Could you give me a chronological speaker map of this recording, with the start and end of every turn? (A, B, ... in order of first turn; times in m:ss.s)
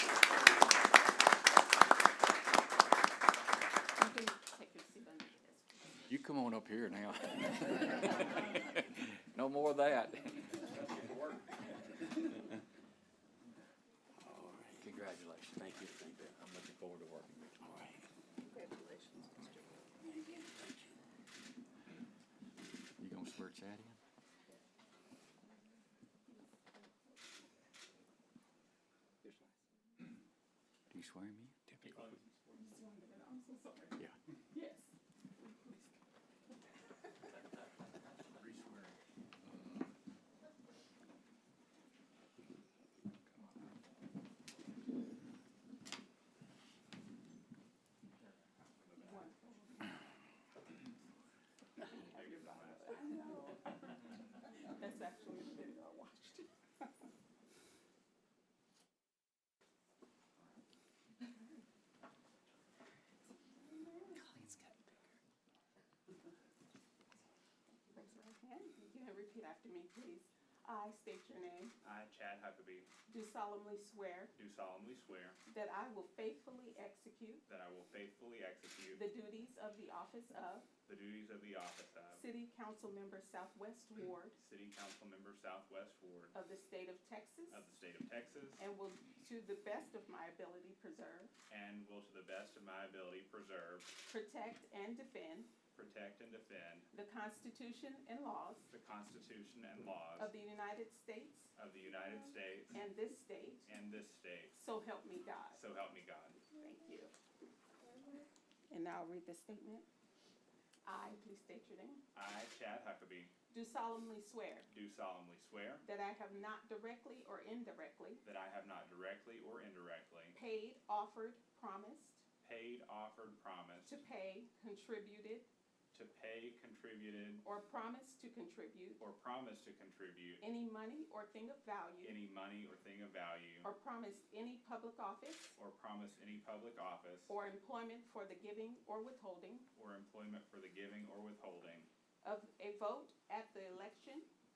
0:03.9-0:06.0 A
0:06.1-0:11.1 B
0:14.1-0:14.9 C
0:14.8-0:17.6 B
0:15.6-0:16.4 C
0:17.6-0:18.1 C
0:18.4-0:19.6 A
0:20.0-0:21.0 C
0:23.0-0:24.0 B
0:26.3-0:27.2 A
0:29.2-0:29.6 A
0:30.9-0:32.1 B
0:31.9-0:32.7 D
0:32.5-0:34.0 A
0:34.5-0:35.9 A
0:49.0-0:50.0 A
0:51.8-0:53.8 A
0:51.8-0:53.2 D
0:54.6-0:56.5 A
1:03.5-1:04.9 A
1:07.9-1:11.7 A
1:11.8-1:12.9 D
1:13.1-1:14.3 A
1:14.3-1:15.4 D
1:15.4-1:17.4 A
1:17.4-1:19.0 D
1:19.0-1:20.7 A
1:20.8-1:22.2 D
1:22.1-1:24.4 A
1:24.4-1:26.3 D
1:26.3-1:27.7 A
1:27.5-1:28.6 D
1:28.6-1:31.3 A
1:31.5-1:33.9 D
1:34.0-1:35.5 A
1:35.7-1:36.9 D
1:36.9-1:38.7 A
1:38.7-1:40.3 D
1:40.2-1:41.5 A
1:41.5-1:42.8 D
1:42.7-1:43.7 A
1:43.6-1:44.5 D
1:44.5-1:45.6 A
1:45.5-1:46.4 D
1:46.5-1:47.1 A
1:48.7-1:49.9 A
1:50.8-1:52.0 A
1:52.1-1:53.3 D
1:53.5-1:54.7 A
1:54.7-1:55.8 D
1:55.8-1:58.2 A
1:58.2-2:00.4 D
2:00.3-2:02.2 A
2:02.4-2:04.0 D
2:03.8-2:05.5 A
2:05.9-2:07.4 D
2:07.4-2:09.0 A
2:09.0-2:10.4 D
2:10.4-2:12.2 A
2:12.0-2:13.7 D
2:13.6-2:15.6 A
2:15.6-2:17.3 D
2:17.3-2:19.7 A
2:19.7-2:21.9 D
2:22.2-2:24.3 A